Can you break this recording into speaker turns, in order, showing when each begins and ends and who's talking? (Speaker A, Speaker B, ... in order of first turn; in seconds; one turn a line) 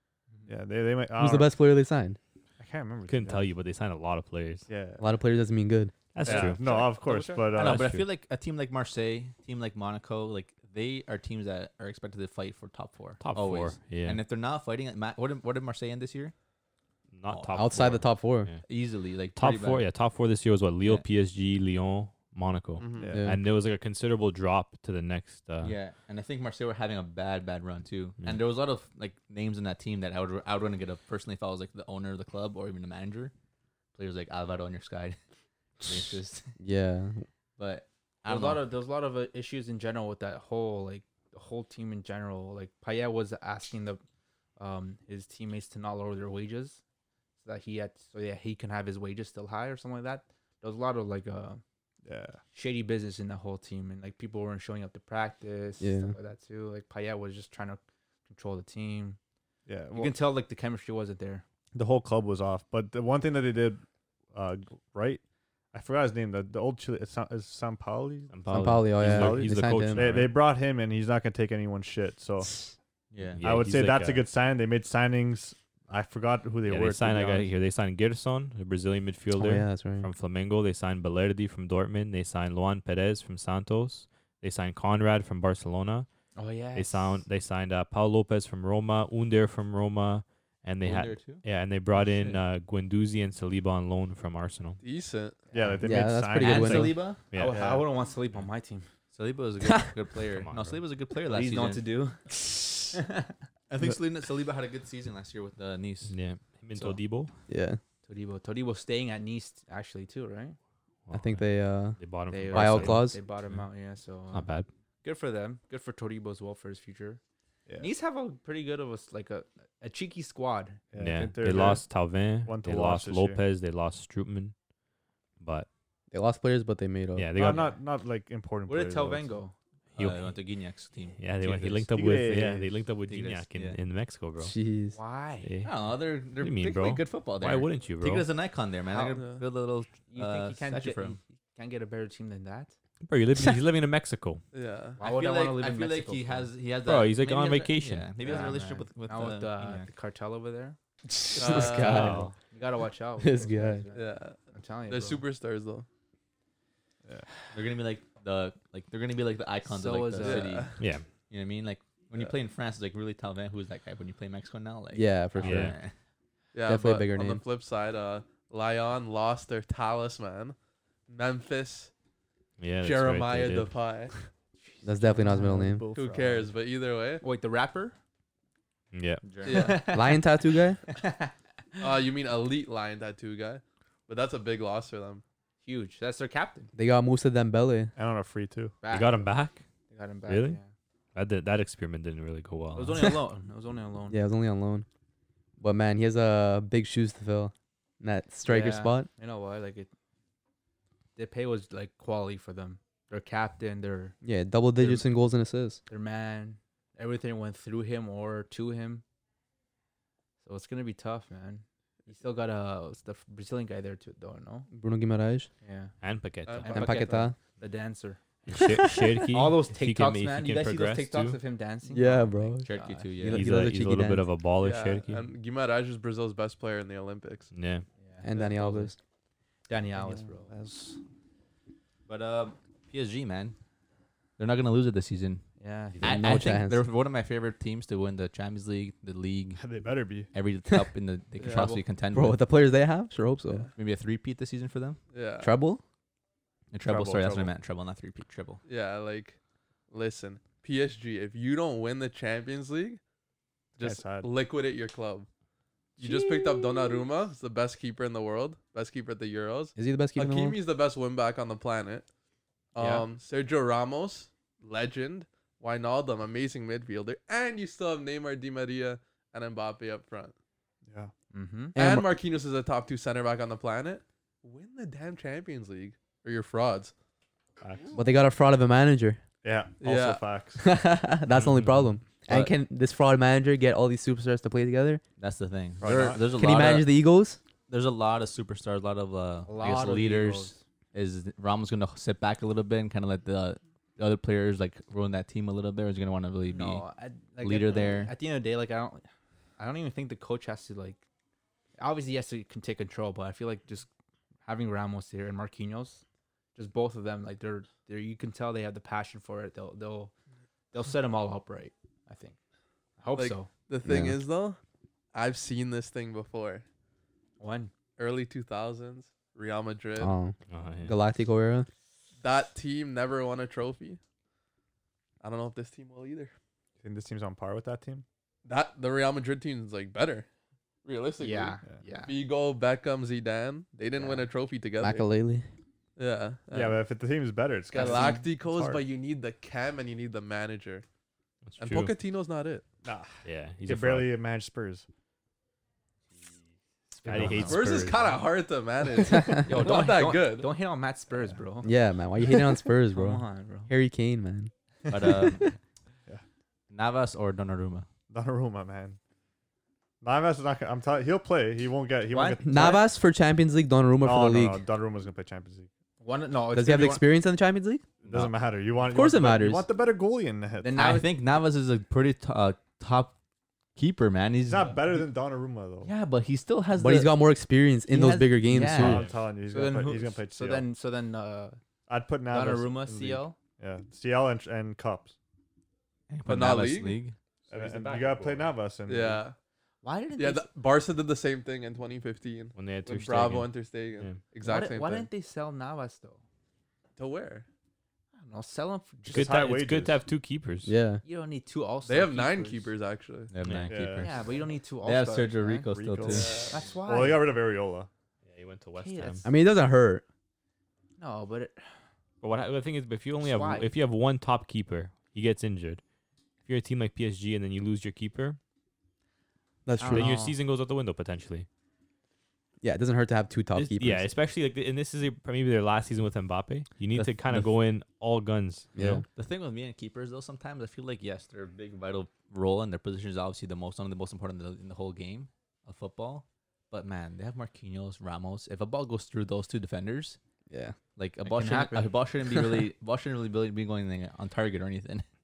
Speaker A: 0.5-1.5
Speaker B: 1.2-2.2
Speaker A: 2.6-3.5
Speaker C: 3.1-4.7
Speaker A: 4.7-5.1
Speaker B: 5.0-6.0
Speaker C: 6.1-6.7
Speaker A: 6.2-7.9
Speaker D: 6.2-16.4
Speaker C: 7.6-8.1
Speaker C: 13.2-14.2
Speaker C: 17.1-18.7
Speaker D: 17.3-19.9
Speaker B: 17.6-18.5
Speaker C: 19.3-25.8
Speaker E: 22.8-23.2
Speaker A: 22.9-23.2
Speaker B: 23.1-23.4
Speaker D: 25.6-33.3
Speaker D: 34.0-35.2
Speaker D: 35.8-36.6
Speaker B: 36.6-37.3
Speaker D: 37.6-38.6
Speaker F: 38.2-44.0
Speaker F: 44.6-46.8
Speaker F: 47.4-51.6
Speaker A: 52.0-52.4
Speaker F: 52.5-59.2
Speaker B: 55.8-56.1
Speaker A: 59.7-60.1
Speaker F: 59.9-61.5
Speaker A: 61.8-65.2
Speaker A: 65.7-72.7
Speaker C: 68.3-70.4
Speaker B: 68.5-70.0
Speaker D: 73.1-73.4
Speaker C: 73.3-74.3
Speaker A: 73.4-77.5
Speaker C: 76.7-86.1
Speaker B: 79.3-80.1
Speaker F: 86.4-87.2
Speaker C: 86.7-94.8
Speaker D: 90.8-91.5
Speaker E: 94.8-95.4
Speaker A: 95.5-97.9
Speaker B: 95.8-97.0
Speaker D: 96.4-97.2
Speaker C: 97.3-97.6
Speaker F: 97.3-98.9
Speaker D: 99.1-101.8
Speaker C: 100.3-100.8
Speaker F: 101.3-102.3
Speaker F: 102.9-103.3
Speaker D: 103.7-106.2
Speaker C: 106.1-107.3
Speaker B: 107.5-107.8
Speaker F: 108.1-110.6
Speaker C: 111.1-113.7
Speaker B: 111.1-113.2
Speaker F: 112.3-117.2
Speaker C: 114.3-114.7
Speaker F: 117.8-120.8
Speaker A: 120.9-123.4
Speaker C: 121.0-124.5
Speaker C: 125.4-125.7
Speaker B: 126.1-127.3
Speaker C: 127.2-127.8
Speaker A: 127.3-129.3
Speaker F: 128.7-129.6
Speaker C: 129.9-130.4
Speaker D: 130.0-131.9
Speaker C: 131.2-134.6
Speaker A: 131.9-132.7
Speaker D: 133.1-133.8
Speaker B: 134.4-135.0
Speaker F: 134.9-135.5
Speaker C: 135.4-138.3
Speaker D: 135.6-141.2
Speaker F: 138.9-139.3
Speaker E: 139.2-139.4
Speaker F: 140.1-142.7
Speaker C: 143.0-144.4
Speaker E: 144.5-145.0
Speaker F: 145.0-146.5
Speaker D: 145.0-149.9
Speaker C: 146.8-148.2
Speaker F: 148.2-150.8
Speaker A: 148.3-148.6
Speaker B: 151.1-152.2
Speaker E: 151.3-152.2
Speaker C: 151.8-152.3
Speaker A: 151.9-152.3
Speaker F: 152.5-155.2
Speaker B: 153.2-153.9
Speaker E: 153.9-155.9
Speaker D: 157.5-165.9
Speaker F: 159.7-160.6
Speaker E: 160.2-160.8
Speaker C: 160.8-161.1
Speaker B: 164.9-165.8
Speaker C: 165.4-165.8
Speaker E: 166.5-170.6
Speaker B: 166.7-167.4
Speaker E: 171.1-171.9
Speaker C: 172.6-173.8
Speaker E: 172.8-174.2
Speaker F: 174.6-175.7
Speaker B: 174.8-175.9
Speaker A: 175.1-176.5
Speaker E: 175.9-177.2
Speaker F: 177.2-178.0
Speaker C: 178.9-179.2
Speaker D: 179.2-179.8
Speaker E: 179.4-179.9
Speaker F: 179.4-180.2
Speaker B: 179.9-180.8
Speaker E: 181.8-185.2
Speaker F: 185.6-186.7
Speaker B: 186.7-187.9
Speaker A: 188.0-188.8
Speaker F: 188.8-189.3
Speaker C: 188.9-189.6
Speaker F: 189.9-190.7
Speaker C: 190.3-190.6
Speaker C: 191.2-193.1
Speaker F: 192.7-194.2
Speaker B: 194.1-194.9
Speaker B: 195.6-199.1
Speaker F: 198.4-199.9
Speaker F: 201.2-204.2
Speaker B: 204.2-205.8
Speaker F: 204.8-205.1
Speaker F: 205.9-209.0
Speaker F: 210.4-214.7
Speaker B: 214.7-215.5
Speaker F: 215.6-215.9
Speaker C: 216.0-216.7
Speaker E: 216.5-217.3
Speaker F: 216.6-218.2
Speaker B: 216.7-217.4
Speaker C: 218.5-221.4
Speaker B: 218.6-218.9
Speaker F: 219.3-223.2
Speaker B: 221.9-224.2
Speaker D: 222.6-223.5
Speaker C: 223.3-225.3
Speaker E: 224.6-227.5
Speaker C: 227.5-227.8
Speaker F: 228.0-229.0
Speaker B: 228.2-229.0
Speaker F: 229.7-230.5
Speaker A: 230.0-231.0
Speaker D: 232.1-233.6
Speaker D: 234.4-235.4
Speaker F: 235.6-236.2
Speaker C: 236.0-236.4
Speaker D: 236.0-239.7
Speaker B: 236.0-236.8
Speaker A: 239.6-240.3
Speaker D: 240.3-242.4
Speaker E: 241.4-241.7
Speaker F: 241.4-241.8
Speaker B: 242.1-243.7
Speaker D: 243.8-245.0
Speaker E: 245.1-245.5
Speaker B: 245.4-245.8
Speaker D: 246.7-248.6
Speaker A: 246.8-247.5
Speaker E: 248.7-249.4
Speaker E: 249.9-253.0
Speaker E: 253.8-255.3
Speaker A: 253.8-254.3
Speaker E: 256.0-262.1
Speaker B: 259.8-260.6
Speaker E: 262.7-270.4
Speaker F: 262.8-263.1
Speaker A: 270.9-271.1
Speaker F: 271.3-271.8
Speaker B: 271.8-272.1
Speaker E: 271.8-276.9
Speaker A: 277.6-278.0
Speaker B: 277.9-279.2
Speaker A: 279.4-280.6
Speaker E: 279.8-280.3
Speaker B: 280.6-285.0
Speaker C: 281.3-281.9
Speaker D: 282.3-282.5
Speaker D: 285.2-286.9
Speaker A: 285.8-286.3
Speaker B: 286.2-287.4
Speaker D: 287.7-296.9
Speaker F: 289.4-290.6
Speaker F: 296.5-299.1
Speaker D: 297.4-298.1
Speaker F: 299.6-301.0
Speaker F: 301.8-303.9
Speaker F: 304.4-306.0
Speaker F: 306.6-310.1
Speaker F: 310.7-312.4
Speaker F: 313.0-313.5
Speaker E: 313.2-314.6
Speaker B: 313.8-314.2
Speaker E: 315.1-316.6
Speaker F: 317.4-317.7
Speaker E: 318.0-320.1
Speaker B: 320.0-321.7
Speaker C: 320.5-321.0
Speaker E: 322.2-324.0
Speaker E: 325.2-326.3
Speaker A: 326.8-328.1
Speaker E: 328.4-330.3
Speaker E: 330.8-335.1
Speaker F: 331.2-332.1
Speaker B: 334.8-335.5
Speaker E: 336.0-336.8
Speaker A: 336.5-338.8
Speaker E: 337.7-340.9
Speaker F: 337.8-338.2
Speaker C: 341.5-341.9
Speaker E: 341.6-342.6
Speaker A: 342.8-344.9
Speaker C: 343.2-344.1
Speaker F: 347.0-347.4
Speaker C: 347.0-348.1
Speaker A: 347.1-347.6
Speaker E: 347.4-350.5
Speaker B: 349.1-349.4
Speaker F: 349.4-353.7
Speaker B: 351.6-354.5
Speaker D: 354.9-355.5
Speaker D: 356.7-357.9
Speaker A: 358.1-359.0
Speaker A: 360.0-362.8
Speaker F: 362.1-362.9
Speaker B: 362.4-364.6
Speaker A: 364.0-365.7
Speaker F: 366.0-367.1
Speaker B: 366.5-367.9
Speaker A: 368.0-370.8
Speaker D: 368.1-368.3
Speaker B: 368.8-369.7
Speaker F: 370.6-371.1
Speaker D: 370.8-373.1
Speaker D: 373.8-375.0
Speaker A: 374.4-375.9
Speaker D: 375.8-377.2
Speaker B: 376.7-379.1
Speaker D: 377.9-379.1
Speaker A: 378.7-380.7
Speaker C: 378.8-379.2
Speaker F: 379.5-381.6
Speaker A: 381.9-385.1
Speaker F: 382.3-383.4
Speaker D: 386.1-387.1
Speaker E: 386.2-387.0
Speaker A: 387.5-389.2
Speaker C: 387.5-388.5
Speaker E: 388.9-389.4
Speaker F: 389.8-390.5
Speaker E: 390.2-395.1
Speaker C: 392.6-394.2
Speaker F: 394.4-396.2
Speaker E: 397.0-397.5
Speaker F: 398.1-399.6
Speaker A: 399.1-400.0
Speaker C: 399.1-400.7
Speaker B: 400.6-401.0
Speaker F: 401.1-402.7
Speaker E: 401.9-403.3
Speaker D: 403.3-406.5
Speaker C: 403.4-403.7
Speaker A: 403.7-404.2
Speaker F: 404.0-407.3
Speaker A: 405.7-407.9
Speaker E: 406.1-406.6
Speaker C: 408.3-409.3
Speaker F: 408.8-409.3
Speaker B: 409.2-410.0
Speaker F: 411.0-411.8
Speaker C: 412.2-415.8
Speaker F: 413.2-413.7
Speaker C: 416.4-418.4
Speaker B: 419.6-420.2
Speaker F: 419.8-420.4
Speaker C: 419.9-421.5
Speaker B: 422.6-424.1
Speaker C: 423.6-429.0
Speaker D: 426.9-427.5
Speaker B: 428.8-429.1
Speaker D: 429.1-440.2
Speaker B: 440.5-440.8
Speaker D: 441.0-445.1
Speaker F: 441.2-442.5